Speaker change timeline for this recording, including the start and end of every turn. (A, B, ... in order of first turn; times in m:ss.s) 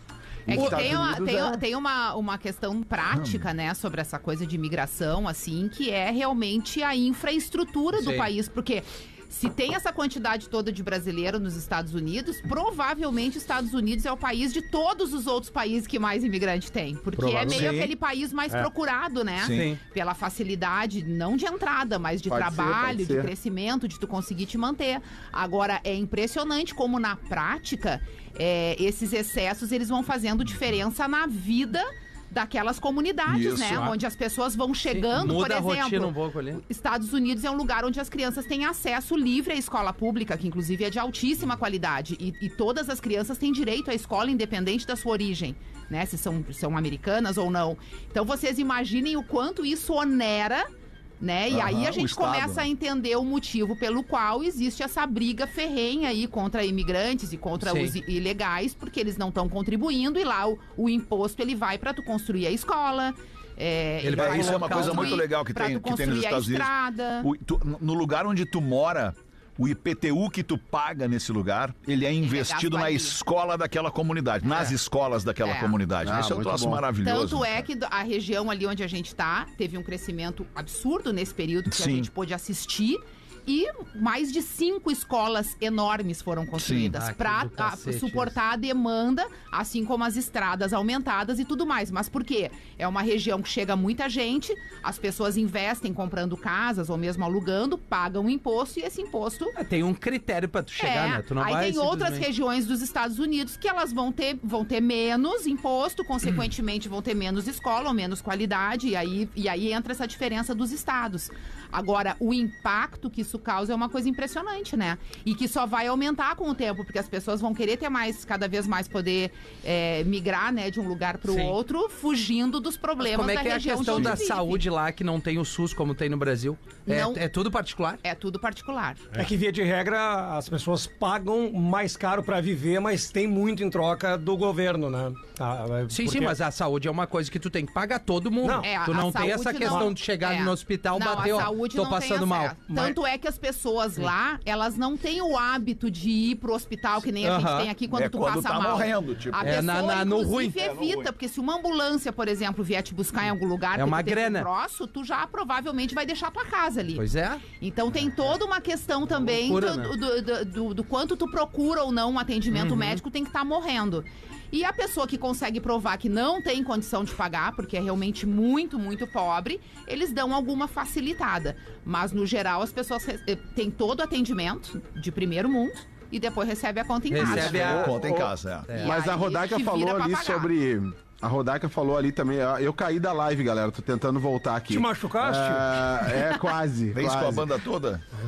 0:00.5-0:01.6 A
0:00.5-0:50.7 B
0:00.5-0:00.9 C
0:03.1-0:03.4 D
0:08.0-0:08.3 C
0:17.2-0:17.8 C
0:17.5-0:17.9 D
0:19.4-0:19.7 D
0:19.5-0:19.8 C
0:22.3-0:23.3 A
0:33.3-0:33.9 D
0:34.9-0:36.6 C
0:51.2-1:07.3 B
0:51.5-0:52.7 D
0:57.6-0:58.0 C
1:04.0-1:05.2 C
1:04.1-1:17.7 D
1:12.2-1:13.2 B
1:14.4-1:14.8 B
1:15.4-1:15.8 B
1:16.0-1:16.8 A
1:17.0-1:39.6 B
1:21.7-1:22.1 D
1:26.6-1:26.9 D
1:27.0-1:28.3 C
1:39.6-1:42.3 C
1:40.8-2:04.6 B
2:01.3-2:01.6 C
2:03.0-2:08.0 C
2:06.9-2:07.2 B
2:08.0-2:09.1 B
2:09.2-2:16.4 E
2:15.9-2:22.9 C
2:18.4-2:19.9 E
2:18.6-2:58.0 B
2:27.2-2:27.7 C
2:27.9-2:29.8 D
2:29.4-2:30.6 C
2:30.6-2:31.1 D
2:33.8-2:34.5 C
2:37.0-2:37.4 C
2:39.1-2:39.9 C
2:42.5-2:43.0 C
2:57.1-2:58.0 C
2:57.2-2:58.7 D
2:57.2-3:07.5 A
2:58.7-2:59.0 C
2:58.7-3:00.5 B
3:04.7-3:05.8 E
3:06.9-3:08.0 D